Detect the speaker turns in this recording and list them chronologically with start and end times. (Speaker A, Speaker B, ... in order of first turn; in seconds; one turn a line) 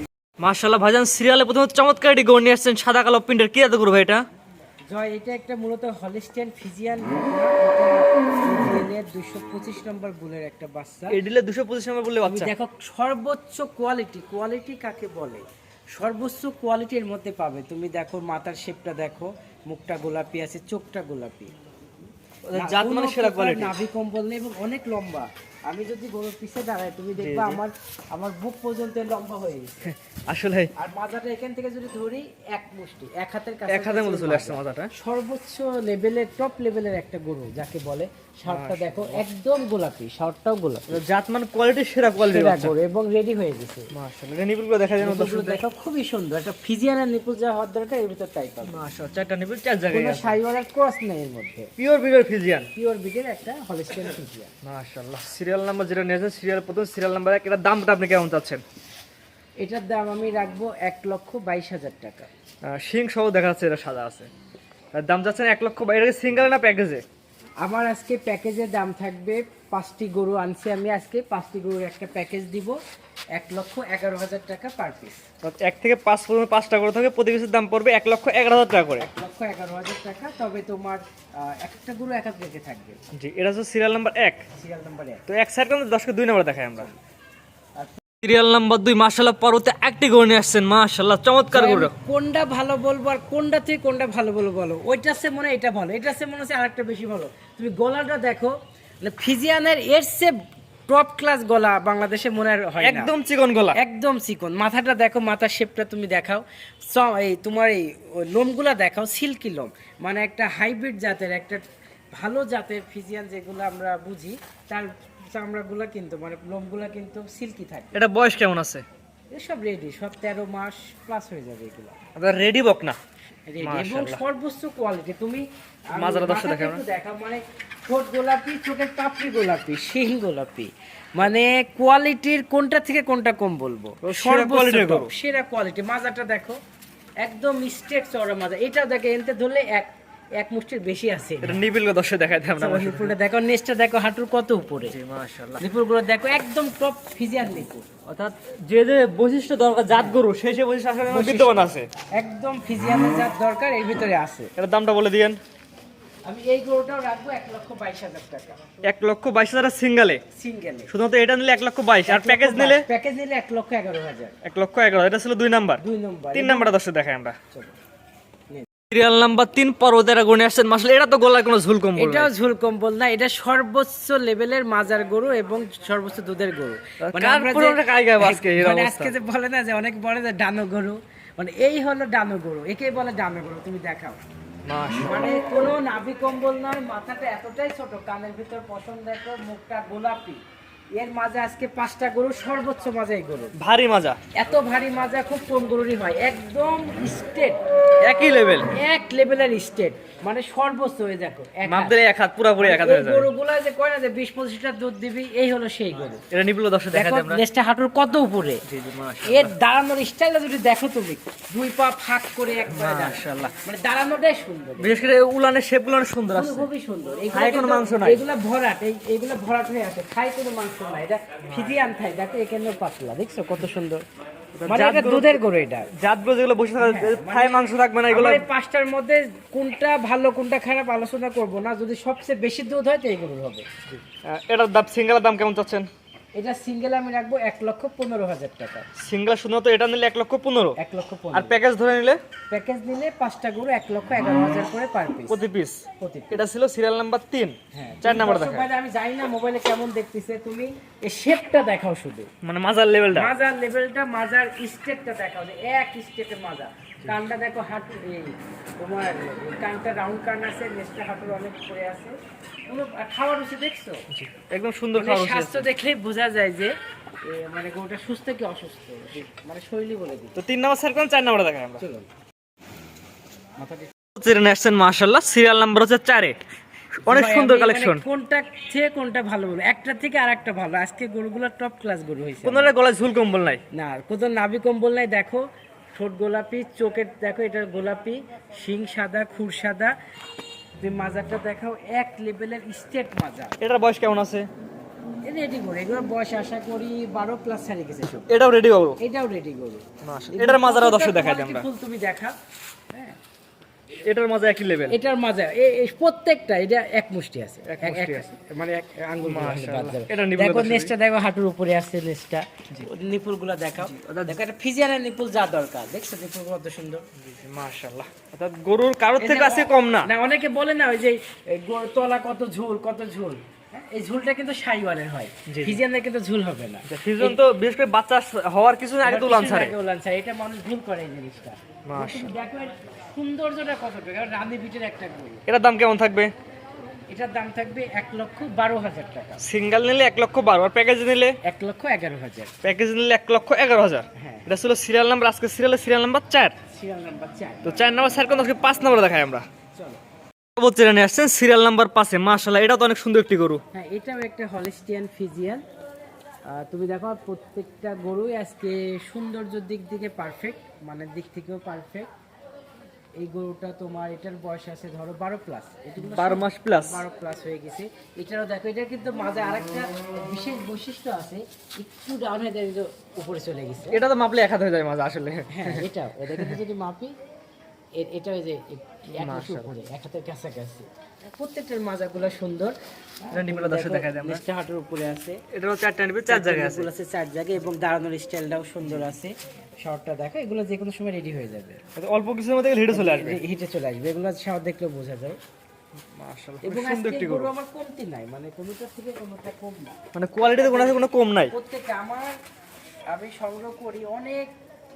Speaker A: 0.4-4.2
Speaker B: 4.9-11.2
Speaker A: 11.1-12.5
Speaker B: 12.3-21.5
Speaker A: 22.5-23.8
Speaker B: 22.6-29.9
Speaker A: 27.2-27.6
Speaker A: 29.8-30.7
Speaker B: 30.8-40.9
Speaker A: 33.7-34.9
Speaker A: 38.5-39.2
Speaker A: 40.9-42.7
Speaker B: 42.1-43.9
Speaker A: 43.9-45.6
Speaker B: 45.0-48.8
Speaker A: 48.7-50.4
Speaker B: 49.9-51.7
Speaker A: 51.8-52.7
Speaker B: 52.8-54.5
Speaker A: 54.6-58.6
Speaker B: 59.6-62.3
Speaker A: 62.7-64.3
Speaker A: 64.9-67.0
Speaker B: 67.6-72.8
Speaker B: 73.3-75.2
Speaker A: 75.4-79.0
Speaker B: 79.0-83.0
Speaker A: 83.1-84.4
Speaker B: 84.6-85.2
Speaker A: 85.3-86.9
Speaker A: 88.2-91.9
Speaker B: 91.5-100.3
Speaker B: 100.9-103.1
Speaker A: 102.8-103.8
Speaker B: 103.8-111.6
Speaker B: 112.2-118.0
Speaker A: 117.9-118.8
Speaker B: 119.3-122.0
Speaker A: 122.2-123.0
Speaker B: 123.5-136.6
Speaker A: 123.6-124.2
Speaker A: 126.0-126.8
Speaker A: 134.0-135.1
Speaker B: 137.2-141.6
Speaker A: 141.4-143.1
Speaker B: 142.6-144.9
Speaker A: 144.9-145.6
Speaker B: 145.6-147.9
Speaker A: 148.1-151.9
Speaker B: 149.9-150.2
Speaker B: 151.1-154.5
Speaker A: 154.6-155.4
Speaker B: 156.3-158.6
Speaker A: 158.8-160.2
Speaker B: 160.3-160.9
Speaker A: 160.9-162.9
Speaker B: 162.1-164.4
Speaker A: 164.4-165.8
Speaker B: 165.8-166.8
Speaker A: 166.3-167.4
Speaker A: 168.9-172.3
Speaker B: 172.0-184.2
Speaker A: 177.0-179.1
Speaker A: 184.7-185.4
Speaker B: 185.0-190.4
Speaker B: 190.9-193.6
Speaker A: 193.6-194.2
Speaker B: 194.3-197.6
Speaker A: 198.0-198.7
Speaker B: 198.7-201.9
Speaker A: 201.7-203.3
Speaker B: 202.6-206.2
Speaker A: 206.3-207.4
Speaker B: 206.9-208.6
Speaker A: 208.7-209.5
Speaker B: 209.2-215.0
Speaker A: 212.7-213.5
Speaker A: 214.8-216.7
Speaker B: 216.3-224.0
Speaker A: 217.3-218.2
Speaker A: 221.5-221.8
Speaker A: 224.6-225.4
Speaker B: 224.7-225.9
Speaker A: 225.9-228.4
Speaker B: 226.8-233.7
Speaker A: 233.9-235.9
Speaker B: 236.4-238.9
Speaker A: 239.0-240.8
Speaker B: 240.8-241.6
Speaker A: 241.3-242.2
Speaker B: 242.5-245.4
Speaker A: 245.3-248.7
Speaker B: 246.0-246.4
Speaker B: 247.7-252.3
Speaker A: 252.4-253.3
Speaker B: 253.1-262.2
Speaker B: 262.7-264.0
Speaker A: 264.1-265.7
Speaker B: 264.9-266.7
Speaker B: 267.2-270.4
Speaker A: 270.4-271.8
Speaker B: 271.8-272.1
Speaker B: 273.6-273.9
Speaker A: 274.2-276.4
Speaker A: 277.1-278.0
Speaker B: 277.1-282.7
Speaker A: 282.4-283.6
Speaker B: 283.7-289.9
Speaker B: 290.8-293.6
Speaker A: 293.6-294.5
Speaker B: 295.2-298.3
Speaker A: 298.3-299.0
Speaker B: 299.0-302.3
Speaker A: 300.0-301.7
Speaker B: 302.9-303.2
Speaker A: 304.1-305.0
Speaker B: 304.9-317.1
Speaker A: 307.7-308.3
Speaker A: 309.3-310.9
Speaker A: 313.8-314.4
Speaker A: 317.2-320.1
Speaker B: 319.2-327.4
Speaker A: 325.5-325.8
Speaker A: 326.9-329.7
Speaker B: 329.0-335.4
Speaker A: 331.9-332.3
Speaker A: 335.5-336.3
Speaker B: 337.1-339.4
Speaker A: 339.4-341.4
Speaker B: 341.4-342.5
Speaker A: 342.6-346.6
Speaker B: 344.2-344.5
Speaker B: 346.7-347.9
Speaker A: 347.6-349.4
Speaker B: 349.7-350.0
Speaker A: 350.6-353.6
Speaker B: 353.7-355.6
Speaker B: 356.5-362.1
Speaker B: 363.2-374.0
Speaker A: 366.0-367.0
Speaker A: 373.9-376.6
Speaker B: 375.5-377.1
Speaker B: 378.0-385.4
Speaker A: 379.1-379.7
Speaker A: 383.3-384.4
Speaker A: 385.5-386.9
Speaker B: 386.3-391.8
Speaker A: 388.9-389.1
Speaker A: 392.0-393.4
Speaker B: 392.9-395.4
Speaker A: 396.1-397.5
Speaker B: 396.6-402.4
Speaker A: 400.1-401.5
Speaker B: 403.1-404.5